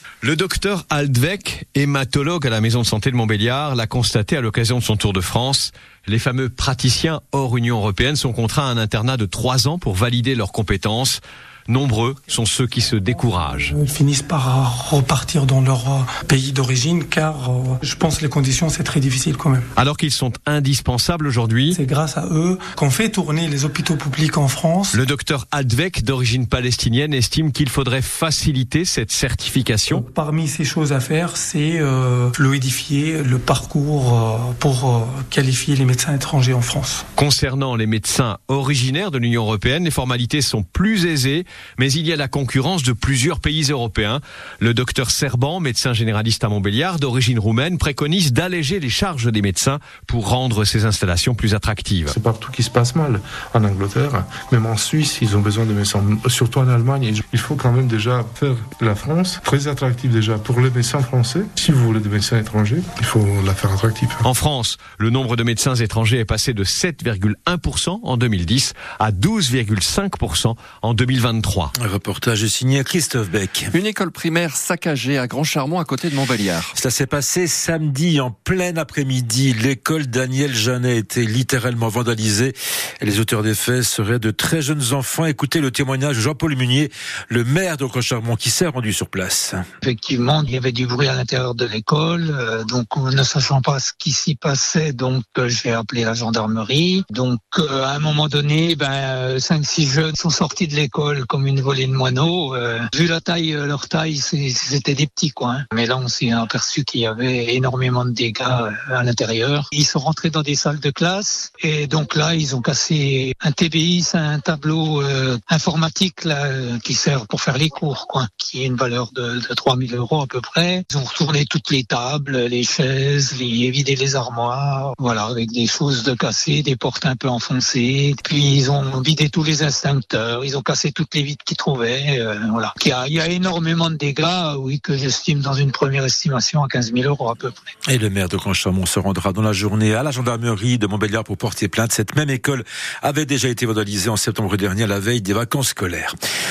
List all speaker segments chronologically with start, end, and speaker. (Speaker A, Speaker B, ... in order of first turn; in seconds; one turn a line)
Speaker A: 0.2-13.8
Speaker B: 13.7-19.6
Speaker A: 19.8-21.8
Speaker B: 21.7-25.0
Speaker A: 24.9-30.0
Speaker B: 29.9-37.0
Speaker A: 37.2-52.1
Speaker C: 52.1-64.2
Speaker A: 64.2-71.7
Speaker D: 71.8-73.7
Speaker E: 73.7-76.7
Speaker D: 76.7-89.6
Speaker F: 89.8-137.6
Speaker D: 137.9-146.1